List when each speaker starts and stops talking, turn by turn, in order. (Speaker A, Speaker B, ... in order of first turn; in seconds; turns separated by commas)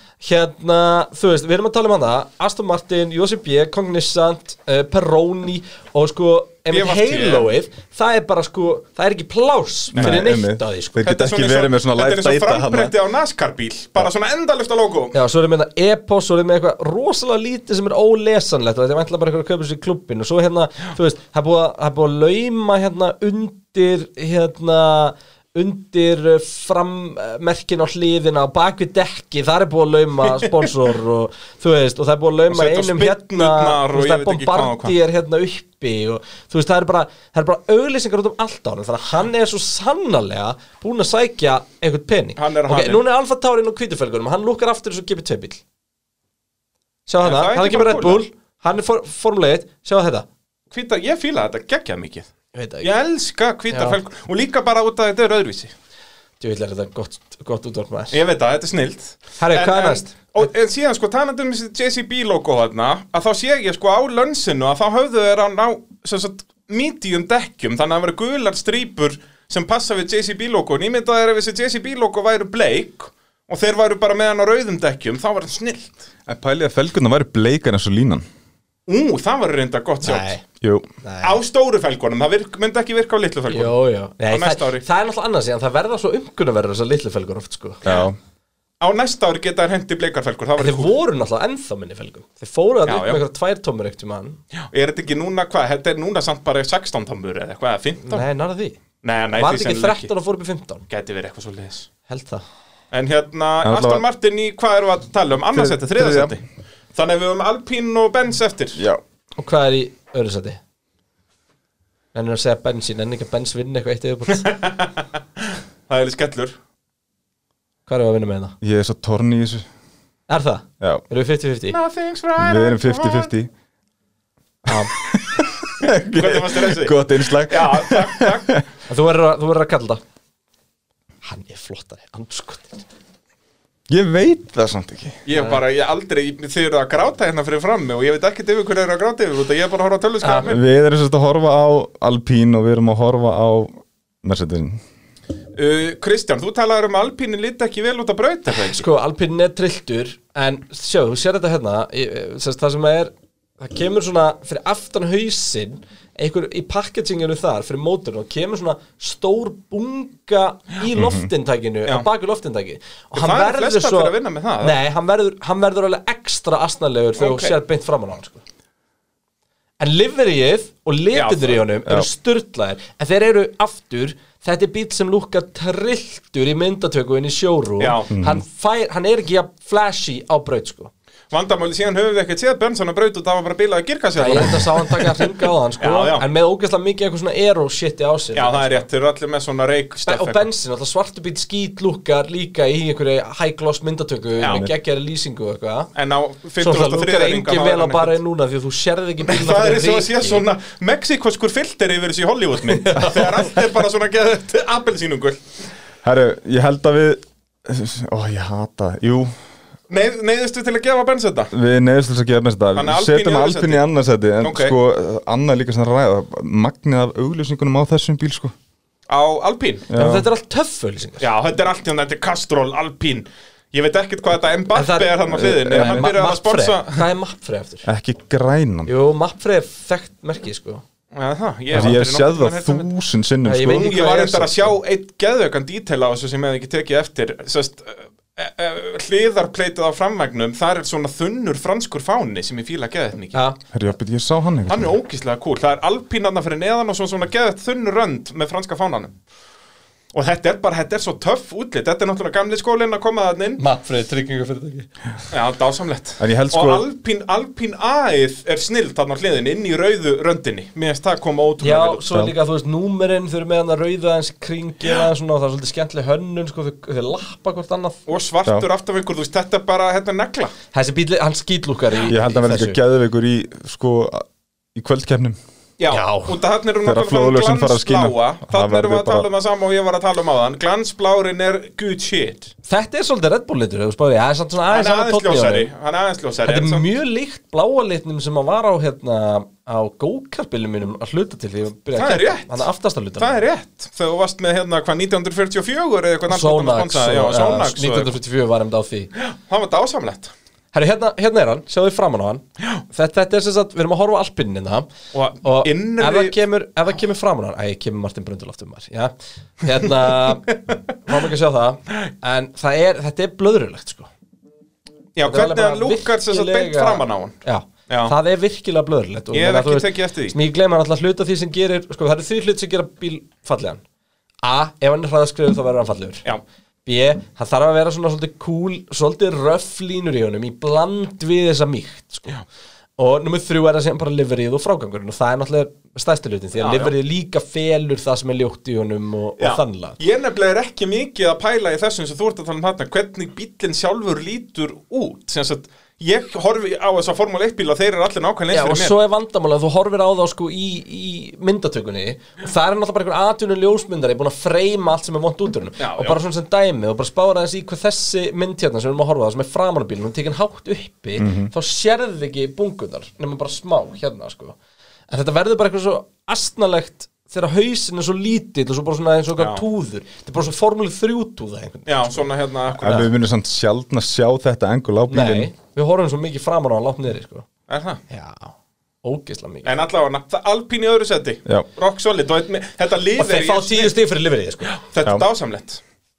Speaker A: 0.2-11.0, Speaker B: 6.7-7.5, Speaker C: 9.9-12.9, Speaker B: 9.9-10.3, Speaker B: 11.0-15.2, Speaker A: 15.1-45.6, Speaker B: 30.4-30.7, Speaker B: 32.5-35.0, Speaker B: 42.4-43.0, Speaker A: 47.1-50.3, Speaker B: 47.2-48.2, Speaker B: 50.7-52.3, Speaker A: 52.5-52.9, Speaker B: 52.8-55.7, Speaker A: 53.7-54.0, Speaker A: 56.4-58.2, Speaker B: 58.1-76.1, Speaker A: 59.4-60.3, Speaker C: 76.3-78.2, Speaker B: 78.9-80.3, Speaker A: 80.0-80.5, Speaker C: 80.6-80.9, Speaker A: 81.0-81.4, Speaker B: 81.2-83.8, Speaker A: 83.5-87.8, Speaker B: 84.3-84.8, Speaker C: 87.8-88.2, Speaker B: 88.8-91.0, Speaker A: 90.6-94.4, Speaker B: 92.9-93.2, Speaker B: 94.6-98.3, Speaker A: 98.0-98.8, Speaker B: 99.0-100.1, Speaker A: 99.3-100.8, Speaker B: 100.9-101.9, Speaker A: 102.1-102.4, Speaker B: 102.9-106.4, Speaker C: 103.6-104.0, Speaker C: 105.5-106.3, Speaker B: 106.9-108.8, Speaker C: 108.8-109.0, Speaker A: 109.4-110.6, Speaker A: 112.1-114.5, Speaker B: 114.4-116.6, Speaker A: 117.9-118.6, Speaker C: 118.6-119.7, Speaker A: 120.3-121.8, Speaker B: 121.7-123.3, Speaker C: 122.4-123.5, Speaker A: 124.7-124.9, Speaker C: 124.7-128.7, Speaker B: 125.8-128.5, Speaker A: 128.9-130.0, Speaker A: 131.2-132.8, Speaker C: 133.9-135.2, Speaker B: 135.2-140.6, Speaker A: 135.3-135.6, Speaker A: 140.2-140.5, Speaker C: 140.4-144.8, Speaker B: 145.6-148.8, Speaker A: 148.5-168.4, Speaker C: 160.9-161.3, Speaker B: 163.2-164.8, Speaker B: 167.2-167.6, Speaker A: 169.8-180.9, Speaker B: 171.1-171.6, Speaker B: 177.8-178.1, Speaker C: 178.1-178.4, Speaker B: 181.3-185.3, Speaker A: 184.2-188.9, Speaker B: 185.8-186.3, Speaker B: 188.3-190.5, Speaker A: 190.1-195.9, Speaker B: 194.4-194.7, Speaker B: 195.9-198.2, Speaker A: 196.6-200.4, Speaker B: 199.2-205.4, Speaker A: 202.6-203.6, Speaker C: 206.0-209.3, Speaker B: 209.9-211.5, Speaker C: 211.5-218.5, Speaker B: 212.8-213.8, Speaker B: 214.4-214.8, Speaker B: 219.1-219.9, Speaker C: 219.9-220.3, Speaker A: 219.9-221.3, Speaker B: 221.2-227.1, Speaker A: 224.7-227.9, Speaker C: 225.4-226.1, Speaker C: 227.8-228.9, Speaker A: 228.9-230.8, Speaker B: 231.1-232.9, Speaker C: 231.7-234.0, Speaker A: 233.4-234.7, Speaker B: 233.7-243.4, Speaker C: 243.7-244.9, Speaker B: 244.7-249.1, Speaker B: 250.1-253.6, Speaker A: 253.6-254.9, Speaker B: 255.3-262.1, Speaker C: 256.2-256.9, Speaker A: 261.6-268.0, Speaker B: 268.1-270.5, Speaker A: 270.7-272.8, Speaker C: 272.1-275.4, Speaker B: 275.8-282.5, Speaker A: 275.9-276.4, Speaker C: 276.8-279.3, Speaker A: 282.6-285.7, Speaker B: 284.7-286.9, Speaker A: 286.4-293.4, Speaker B: 291.9-292.7, Speaker B: 293.2-298.1, Speaker A: 296.3-299.1, Speaker B: 299.2-300.3, Speaker A: 300.7-304.9, Speaker B: 305.1-306.4, Speaker A: 305.4-314.1, Speaker B: 315.2-317.4, Speaker A: 315.2-323.8, Speaker B: 317.9-318.1, Speaker B: 319.3-320.4, Speaker A: 324.4-326.2, Speaker A: 326.9-332.4, Speaker A: 333.0-340.0, Speaker B: 336.6-336.9, Speaker B: 339.4-348.9, Speaker A: 348.5-364.6, Speaker B: 355.8-356.2, Speaker C: 361.2-361.5, Speaker A: 365.1-372.3, Speaker B: 369.4-369.6, Speaker B: 371.9-373.1, Speaker C: 372.7-375.5, Speaker A: 375.1-377.5, Speaker B: 377.7-378.0, Speaker A: 378.1-379.8, Speaker B: 379.6-383.9, Speaker A: 383.2-384.8, Speaker B: 384.8-385.8